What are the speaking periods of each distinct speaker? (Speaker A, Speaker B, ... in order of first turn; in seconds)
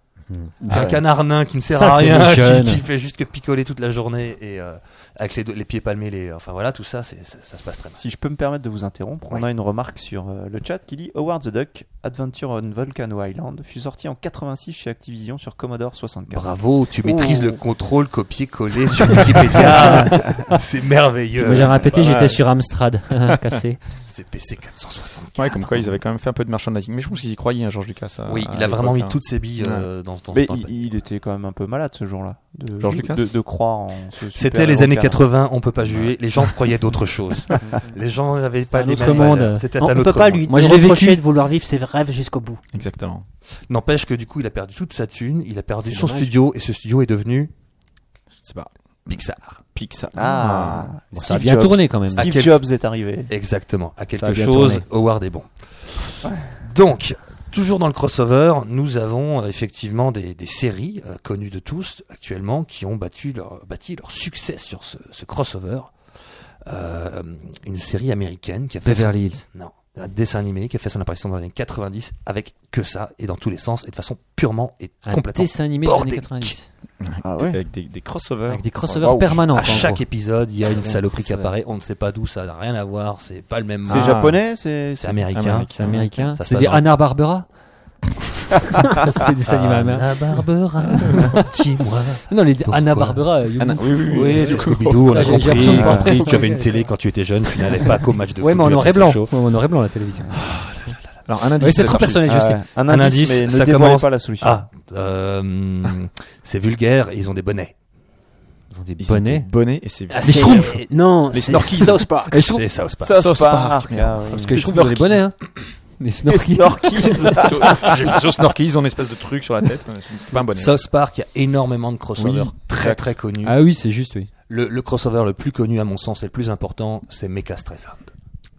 Speaker A: 0.3-0.9, 1.7-2.8, 21.4-23.8, 38.7-39.7, 40.5-41.2, 51.1-52.4, 54.1-54.9, 68.8-69.5, 75.0-76.7, 78.5-80.0, 80.8-81.5, 85.7-87.5, 88.8-90.4, 92.3-96.8, 98.4-100.4, 101.6-102.6, 108.7-109.5, 110.2-110.8, 112.3-112.6, 114.3-115.4, 116.0-117.5, 123.4-124.3
Speaker B: 0.6-8.0, 16.3-21.9, 24.1-26.0, 28.3-30.8, 34.3-40.6, 43.7-47.5, 49.1-49.6, 51.2-52.7, 53.3-55.5, 56.0-65.9, 66.7-76.6, 79.5-84.3, 85.0-87.0, 89.5-93.3, 94.1-99.5, 100.3-101.1, 102.9-107.7, 112.5-113.2, 120.5-123.6, 124.5-128.1
Speaker C: 8.0-16.5, 17.0-17.6, 19.1-20.1, 30.3-35.2, 50.1-53.3, 77.2-77.6, 79.0-79.3, 83.9-85.3, 95.6-96.3, 102.1-104.7, 113.0-114.9, 116.2-118.2
Speaker D: 21.9-22.4, 25.4-29.9, 32.8-33.3, 42.7-43.2, 48.5-49.2, 49.8-50.9, 77.0-79.4, 83.9-84.4, 85.3-86.3, 93.6-96.1, 101.3-102.3, 109.0-112.1, 113.2-115.2, 117.2-120.8, 122.2-123.1
Speaker E: 39.3-42.6, 45.9-46.3, 110.1-112.5